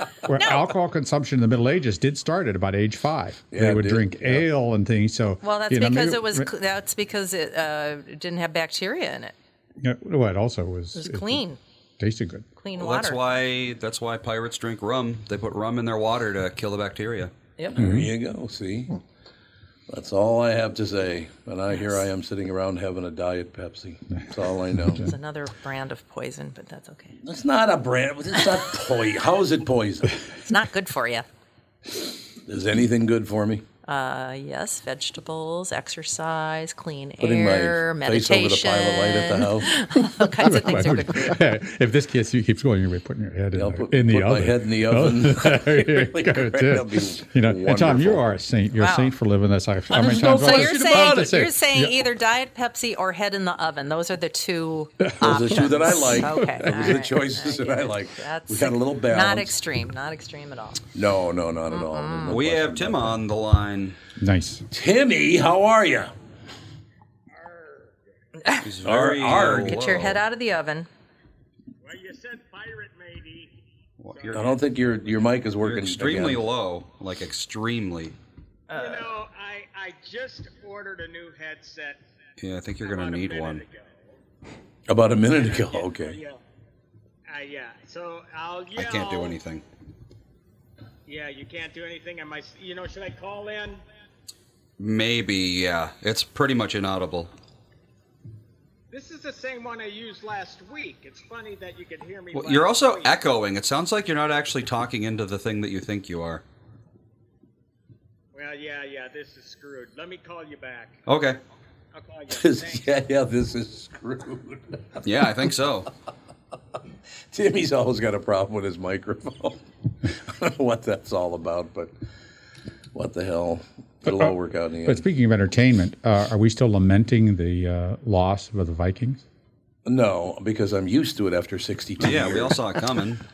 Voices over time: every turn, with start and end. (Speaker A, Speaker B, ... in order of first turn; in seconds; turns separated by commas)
Speaker A: 0.2-6.5, Speaker B: 3.5-4.5, Speaker C: 5.4-9.3, Speaker A: 9.8-11.4, Speaker C: 10.9-11.6, Speaker A: 12.0-12.4, Speaker C: 12.6-13.2, Speaker D: 12.8-17.3, Speaker B: 17.8-19.0, Speaker A: 17.8-18.1, Speaker B: 19.9-25.0, Speaker C: 25.0-27.2, Speaker B: 27.2-30.1, Speaker C: 30.4-31.3, Speaker B: 32.5-33.6, Speaker C: 33.9-41.4, Speaker B: 37.2-39.8, Speaker A: 40.2-51.9, Speaker B: 43.5-48.2, Speaker C: 48.8-49.1, Speaker B: 49.9-51.4, Speaker C: 50.0-60.8, Speaker A: 55.0-57.0, Speaker B: 55.2-59.5, Speaker B: 60.9-63.2, Speaker C: 61.7-62.4, Speaker D: 62.3-64.0, Speaker A: 64.2-64.7, Speaker B: 64.7-66.1, Speaker E: 67.4-67.9, Speaker D: 68.6-70.2, Speaker B: 68.8-70.0, Speaker C: 69.4-70.9, Speaker E: 71.8-73.5, Speaker D: 74.0-74.5, Speaker E: 74.0-75.3, Speaker B: 74.3-76.4, Speaker D: 75.6-78.2, Speaker C: 78.7-79.1, Speaker E: 78.7-82.0, Speaker D: 82.4-83.6, Speaker E: 82.8-84.1, Speaker B: 84.9-86.2, Speaker E: 85.3-86.4, Speaker E: 87.3-89.4, Speaker D: 88.7-89.6, Speaker E: 91.0-93.8, Speaker D: 94.8-97.3, Speaker E: 98.9-103.2, Speaker D: 102.3-106.4, Speaker E: 108.3-111.0, Speaker D: 111.0-111.4, Speaker E: 111.9-112.9, Speaker B: 112.3-115.0, Speaker D: 115.0-115.9, Speaker B: 117.3-121.9, Speaker B: 122.9-125.0, Speaker A: 124.0-124.3, Speaker A: 124.8-129.2, Speaker B: 129.8-132.6, Speaker D: 132.0-133.2